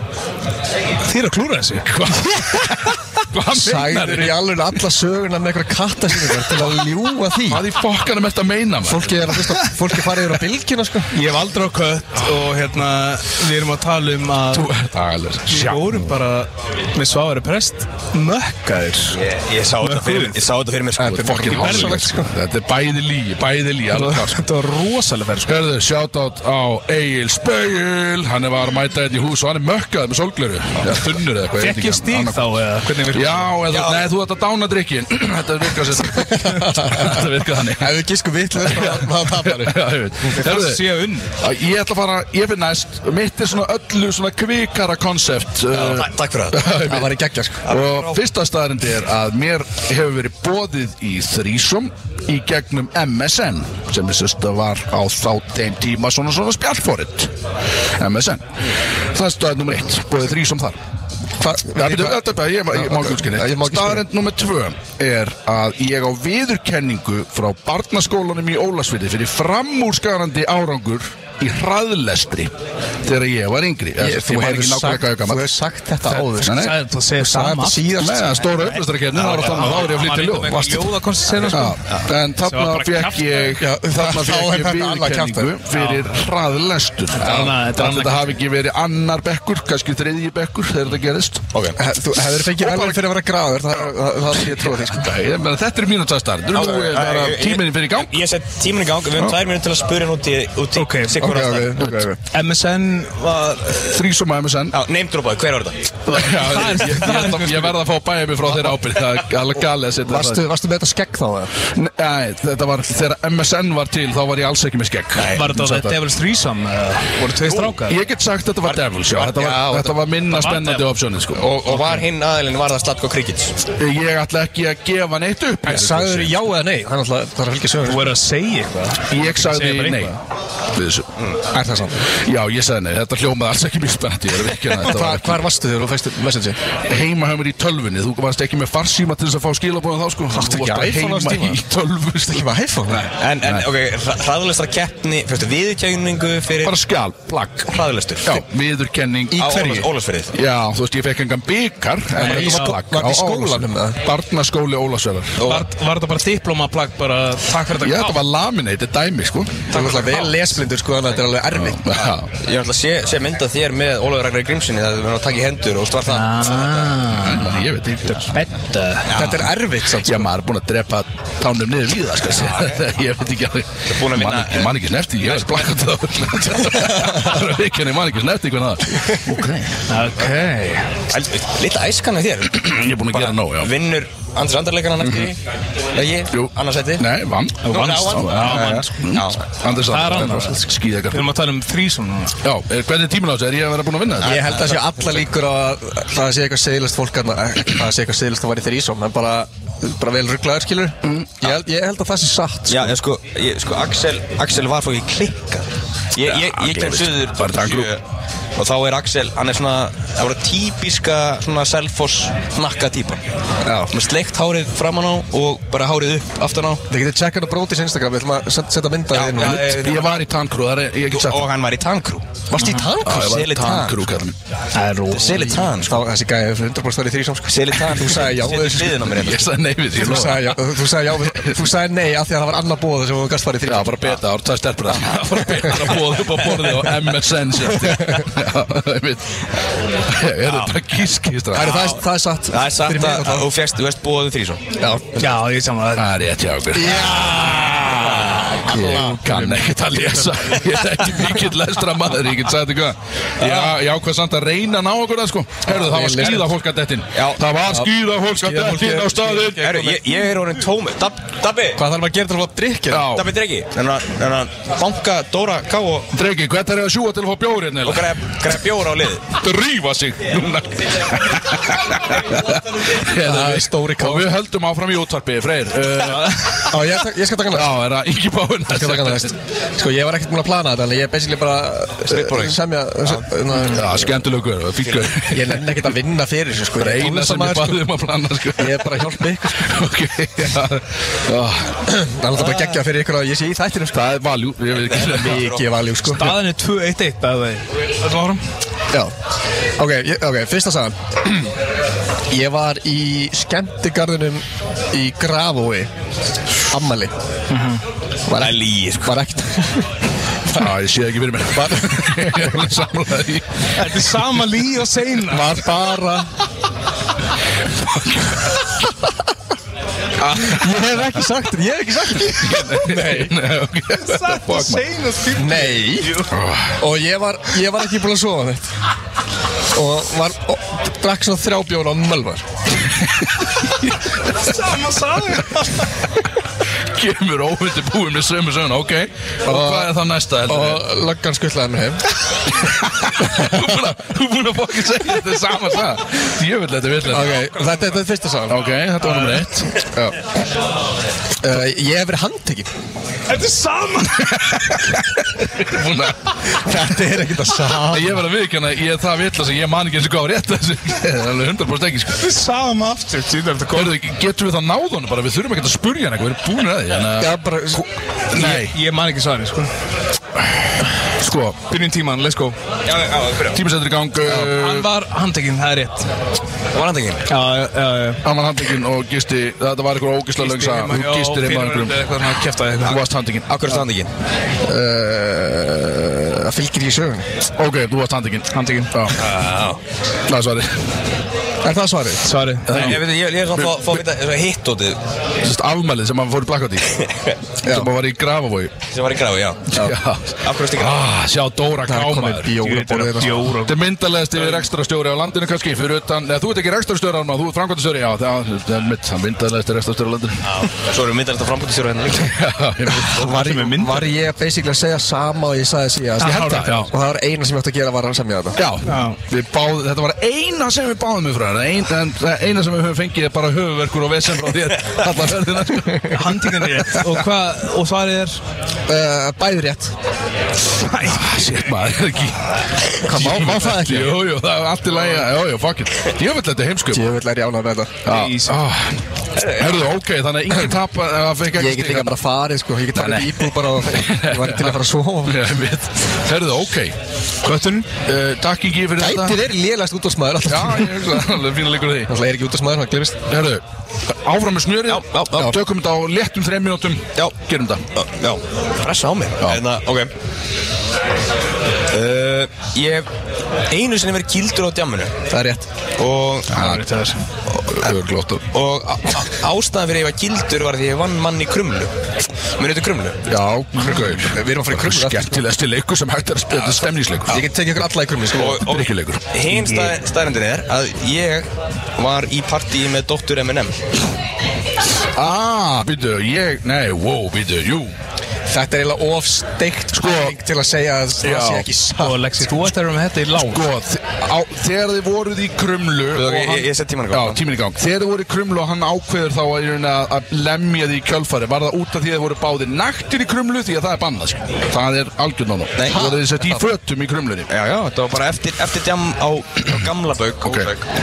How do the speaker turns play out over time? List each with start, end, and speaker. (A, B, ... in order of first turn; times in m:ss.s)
0:01.0-0:02.0 A
0:01.9-0:04.4 B
0:03.5-0:07.6 C
0:07.5-0:09.1 B
0:08.8-0:11.1 C
0:11.1-0:14.7 A
0:14.5-0:16.1 B
0:15.5-0:19.2 A
0:19.1-0:21.7 D
0:19.8-0:20.4 A
0:21.0-0:22.3 C
0:21.0-0:24.4 B
0:21.5-0:22.0 A
0:23.9-0:25.7 A
0:25.5-0:32.4 B
0:31.6-0:33.6 A
0:33.0-0:37.9 B
0:33.7-0:34.0 D
0:36.1-0:40.4 C
0:38.6-0:40.8 B
0:40.4-0:41.3 A
0:41.4-0:47.1 B
0:45.7-0:46.6 D
0:46.7-0:47.6 C
0:47.6-0:48.2 D
0:47.7-0:57.3 B
0:58.0-0:58.5 B
0:59.1-1:00.8 B
1:01.4-1:04.1 C
1:01.7-1:12.5 B
1:13.0-1:15.5 B
1:14.0-1:18.6 C
1:16.2-1:18.0 A
1:16.4-1:16.8 B
1:17.9-1:20.9 B
1:19.1-1:23.6 A
1:21.5-1:31.5 B
1:23.6-1:25.6 C
1:25.7-1:26.0 A
1:27.2-1:28.4 A
1:31.8-1:35.1 C
1:32.6-1:33.0 B
1:34.5-1:38.2 B
1:36.5-1:41.8 D
1:40.8-1:41.3 A
1:41.2-1:42.2 C
1:42.3-1:43.8 A
1:43.9-1:44.8 B
1:44.7-1:45.9 D
1:46.1-1:50.4 B
1:46.1-1:47.8 A
1:50.0-1:51.5 C
1:51.8-1:56.0 B
1:55.2-1:55.4 D
1:55.3-1:58.0 A
1:57.6-2:01.4 B
1:58.6-2:00.0 D
2:00.3-2:00.9 A
2:01.3-2:03.5 D
2:01.8-2:02.0 A
2:03.8-2:06.4 B
2:05.6-2:08.2 C
2:07.9-2:10.2 A
2:09.1-2:10.2 B
2:10.7-2:11.1 B
2:11.5-2:12.1 C
2:12.2-2:15.4 B
2:14.8-2:16.6 C
2:16.9-2:23.7 B
2:20.3-2:21.6 C
2:22.3-2:23.1 C
2:23.1-2:26.8 D
2:26.6-2:35.4 B
2:27.7-2:28.4 D
2:29.3-2:30.4 D
2:29.4-2:29.8 C
2:32.2-2:34.0 C
2:32.2-2:32.8 A
2:35.4-2:35.7 D
2:35.4-2:38.2 A
2:37.8-2:40.0 B
2:39.7-2:42.1 C
2:39.7-2:40.2 D
2:41.6-2:42.3 B
2:42.3-2:47.0 D
2:46.1-2:49.1 A
2:47.1-2:48.3 B
2:49.0-2:49.5 D
2:49.1-2:50.3 C
2:50.0-2:59.8 B
2:53.9-2:55.8 D
2:56.6-2:57.0 D
2:59.9-3:00.9 A
3:01.1-3:05.4 D
3:02.5-3:03.7 B
3:05.0-3:05.3 B
3:05.9-3:07.0 D
3:06.3-3:11.3 B
3:07.6-3:09.0 A
3:07.7-3:09.4 D
3:09.7-3:12.4 A
3:12.4-3:14.4 B
3:14.2-3:23.0 C
3:14.2-3:15.1 D
3:22.7-3:28.0 D
3:26.2-3:27.9 B
3:28.6-3:33.2 D
3:33.6-3:33.9 C
3:33.9-3:36.8 D
3:36.9-3:39.8 C
3:39.1-3:40.2 D
3:39.4-3:41.4 B
3:41.1-3:42.3 D
3:42.5-3:43.4 C
3:43.0-3:44.3 B
3:43.0-3:44.0 D
3:44.7-3:45.6 A
3:45.1-3:46.0 D
3:45.3-3:49.1 C
3:47.5-3:49.4 D
3:49.1-3:50.6 B
3:49.9-3:54.2 C
3:53.6-3:59.4 B
4:00.1-4:01.8 B
4:00.5-4:00.7 D
4:01.5-4:03.5 C
4:01.6-4:01.9 D
4:02.5-4:04.6 D
4:04.8-4:05.3 C
4:05.2-4:06.1 A
4:06.0-4:19.9 B
4:06.7-4:10.8 C
4:13.4-4:13.7 D
4:15.6-4:16.5 C
4:17.1-4:17.4 D
4:17.6-4:20.2 C
4:19.6-4:21.8 D
4:21.8-4:23.2 C
4:22.9-4:23.3 B
4:23.1-4:26.1 D
4:26.1-4:28.3 B
4:27.8-4:29.3 D
4:29.3-4:36.7 B
4:33.1-4:34.3 C
4:36.0-4:36.3 A
4:36.7-4:37.8 C
4:37.5-4:39.3 B
4:38.7-4:44.2 C
4:42.0-4:43.2 D
4:43.6-4:45.6 B
4:44.8-4:45.1 D
4:45.3-4:47.9 C
4:46.8-4:51.8 B
4:48.6-4:49.8 C
4:51.9-4:54.1 C
4:53.9-4:55.5 B
4:54.7-4:55.6 D
4:54.9-4:56.4 C
4:56.1-4:58.4 A
4:59.8-5:01.5 C
5:02.3-5:05.9 C
5:06.7-5:07.2 C
5:07.5-5:07.8 A
5:08.3-5:09.9 C
5:08.4-5:09.1 D
5:10.5-5:13.7 B
5:11.5-5:12.7 C
5:13.8-5:15.6 A
5:15.3-5:16.3 C
5:20.2-5:20.6 B
5:20.3-5:23.4 C
5:22.4-5:24.8 B
5:24.0-5:26.3 A
5:25.4-5:26.2 C
5:26.3-5:26.8 B
5:26.8-5:28.7 C
5:29.7-5:32.4 C
5:34.5-5:35.7 A
5:36.9-5:40.8 B
5:39.4-5:42.0 C
5:43.0-5:47.4 B
5:47.0-5:48.7 C
5:48.5-5:49.9 B
5:49.1-5:49.4 A
5:51.4-5:52.7 C
5:53.3-5:54.4 A
5:54.3-5:56.3 B
5:56.5-5:58.2 C
5:57.9-6:02.2 B
6:02.2-6:04.0 A
6:03.7-6:07.8 B
6:07.2-6:07.8 C
6:08.3-6:08.7 B
6:08.3-6:09.7 A
6:11.2-6:11.6 B
6:11.7-6:12.6 A
6:12.9-6:13.6 D
6:13.5-6:14.9 B
6:14.2-6:14.5 C
6:14.3-6:16.1 A
6:16.7-6:17.3 D
6:17.3-6:18.2 A
6:18.2-6:22.0 B
6:20.4-6:23.0 A
6:22.8-6:23.5 B
6:23.5-6:24.1 D
6:24.6-6:27.3 C
6:27.6-6:29.2 B
6:28.5-6:28.9 A
6:29.2-6:29.8 D
6:30.3-6:30.8 B
6:31.6-6:32.4 C
6:32.2-6:33.0 A
6:32.7-6:34.0 B
6:32.7-6:35.0 D
6:35.4-6:37.0 B
6:37.6-6:38.7 B
6:37.6-6:37.9 C
6:38.9-6:39.7 D
6:39.7-6:40.0 C
6:39.7-6:42.6 B
6:40.4-6:41.0 D
6:41.8-6:43.5 C
6:42.6-6:43.8 A
6:43.6-6:50.4 B
6:50.4-6:52.3 D
6:52.2-6:53.5 B
6:53.1-6:54.1 A
6:53.1-6:58.6 C
6:56.2-6:56.9 A
6:56.2-6:56.9 B
6:58.6-7:06.5 B
6:58.8-6:59.2 A
7:06.1-7:08.4 A
7:08.9-7:10.0 C
7:10.8-7:11.4 A
7:11.0-7:17.1 B
7:13.0-7:14.2 C
7:16.9-7:18.0 C
7:18.1-7:22.2 B
7:18.1-7:18.6 A
7:21.5-7:25.5 C
7:22.9-7:27.0 B
7:27.4-7:27.9 A
7:28.0-7:29.4 B
7:29.0-7:31.3 C
7:30.5-7:32.1 B
7:32.1-7:33.2 C
7:33.3-7:33.6 B
7:34.2-7:37.8 B
7:34.9-7:35.5 D
7:38.0-7:40.1 D
7:41.9-7:43.1 D
7:43.7-7:45.2 D
7:45.3-7:45.7 C
7:46.0-7:46.5 D
7:46.5-7:46.8 B
7:46.5-7:47.2 A
7:47.7-7:48.4 B
7:48.5-7:52.0 D
7:52.6-7:53.2 D
7:53.3-7:57.4 B
7:53.7-7:55.4 C
7:57.3-7:58.7 C
7:58.3-8:03.8 D
7:58.6-7:59.2 B
7:59.5-7:59.9 A
8:05.2-8:07.9 B
8:08.5-8:12.2 C
8:09.9-8:10.4 B
8:11.2-8:11.7 B
8:12.0-8:13.7 A
8:13.5-8:27.5 B
8:16.1-8:17.4 D
8:25.8-8:26.1 D
8:25.9-8:26.6 C
8:27.5-8:30.9 D
8:30.4-8:30.7 B